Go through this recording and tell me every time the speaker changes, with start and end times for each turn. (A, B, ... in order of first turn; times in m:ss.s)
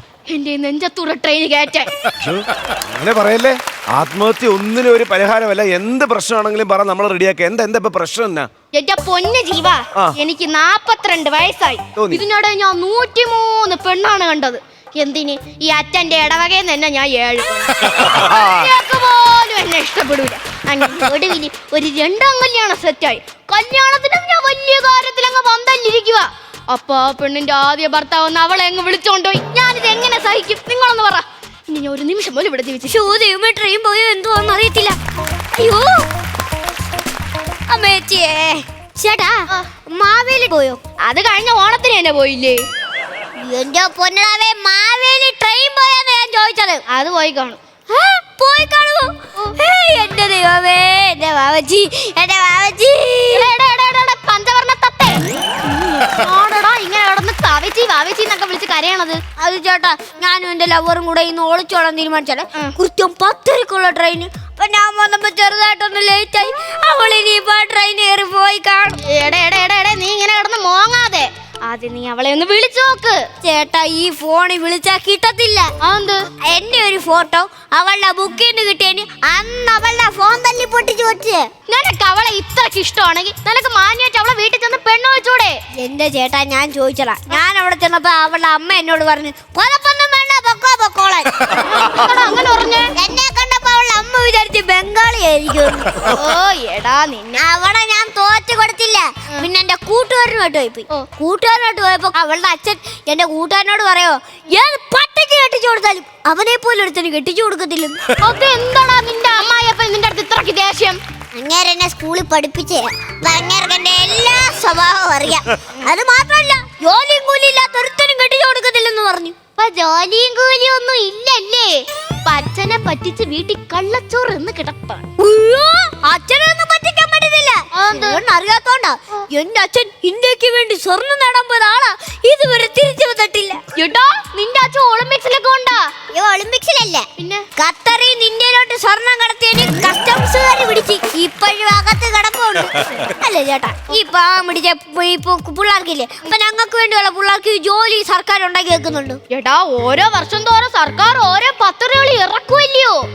0:00.3-0:01.9 A
0:02.2-0:08.5 B
0:08.7-0:33.0 A
0:12.0-0:12.2 B
0:18.3-0:18.6 B
0:32.8-0:35.0 C
0:35.6-0:36.1 C
0:37.7-0:40.8 C
0:41.0-0:42.6 A
0:43.4-0:46.8 C
0:46.9-0:47.6 A
0:47.9-0:53.5 C
0:53.3-0:59.2 A
0:59.4-1:09.0 C
1:09.1-1:13.2 A
1:13.4-1:15.7 C
1:15.8-1:16.2 A
1:16.4-1:21.5 C
1:21.7-1:25.6 A
1:25.8-1:31.6 C
1:31.7-1:33.0 A
1:33.0-1:35.9 C
1:36.1-1:37.5 A
1:37.4-1:48.0 C
1:48.2-1:51.0 A
1:51.3-1:59.4 C
1:59.6-2:05.0 A
2:05.2-2:13.6 C
2:07.7-2:08.2 A
2:13.8-2:15.9 A
2:16.1-2:29.2 C
2:17.2-2:17.4 A
2:29.3-2:33.0 A